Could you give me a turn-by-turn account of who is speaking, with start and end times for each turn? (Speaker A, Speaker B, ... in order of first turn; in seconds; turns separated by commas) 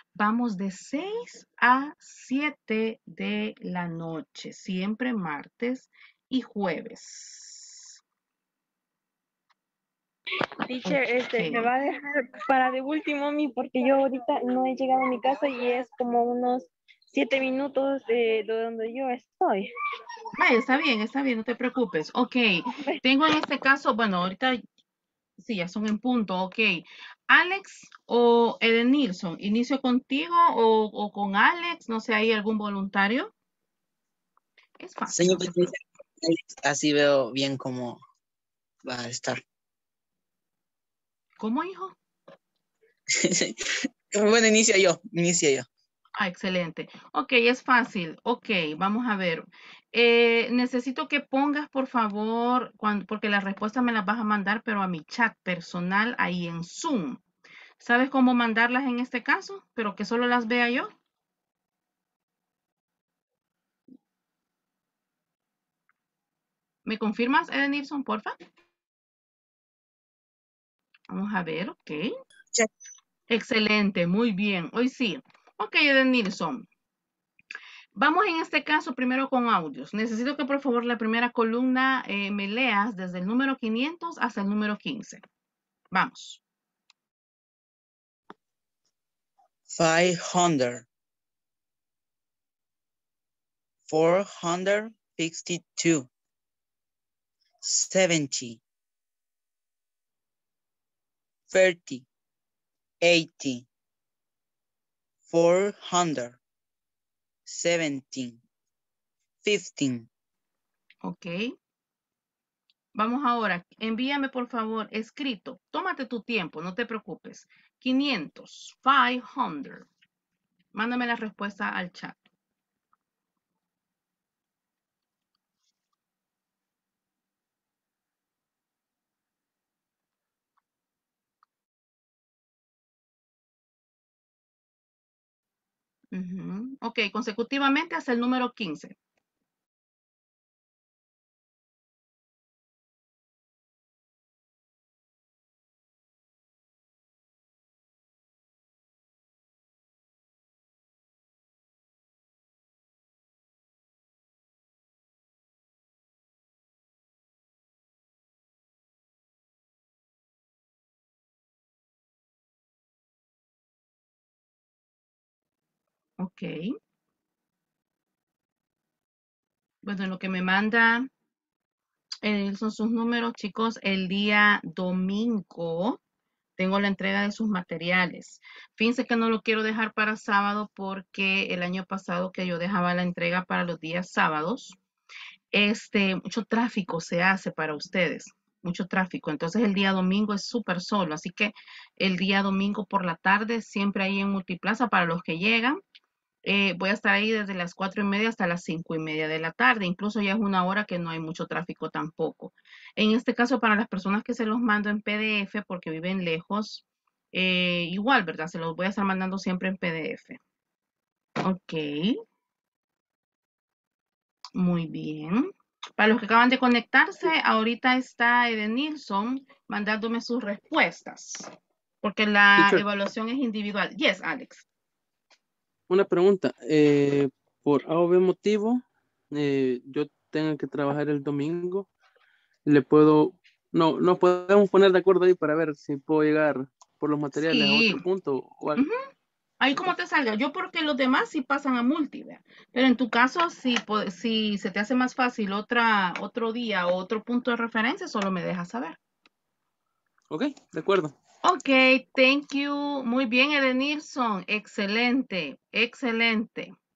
Speaker A: 0.1-8.0, Speaker B: 10.7-19.6, Speaker A: 10.8-11.7, Speaker A: 20.4-24.6, Speaker A: 25.4-33.3, Speaker A: 34.8-35.7, Speaker C: 35.1-38.0, Speaker C: 38.8-39.4, Speaker A: 41.4-42.0, Speaker C: 43.1-45.7, Speaker A: 46.2-57.2, Speaker A: 57.8-60.9, Speaker A: 66.8-68.3, Speaker A: 71.1-72.1, Speaker A: 73.3-76.7, Speaker A: 77.9-85.2, Speaker A: 85.9-86.4, Speaker C: 89.7-90.9, Speaker C: 93.9-96.1, Speaker C: 97.6-98.6, Speaker C: 101.5-102.0, Speaker C: 103.0-103.7, Speaker C: 105.3-106.4, Speaker C: 107.5-108.4, Speaker C: 109.4-110.1, Speaker A: 111.0-111.5, Speaker A: 113.0-119.9, Speaker A: 120.7-122.2, Speaker A: 136.1-138.9, Speaker A: 166.2-166.6, Speaker A: 169.8-171.1, Speaker A: 172.2-176.0, Speaker A: 176.6-184.8, Speaker A: 185.5-195.8, Speaker A: 196.4-210.4, Speaker A: 211.4-212.2, Speaker A: 214.6-221.5, Speaker A: 222.0-224.7, Speaker D: 222.6-222.8, Speaker D: 225.9-231.9, Speaker D: 232.7-238.8, Speaker A: 237.5-238.0, Speaker A: 238.8-239.1, Speaker A: 239.6-249.0, Speaker D: 250.3-251.2, Speaker A: 251.4-256.8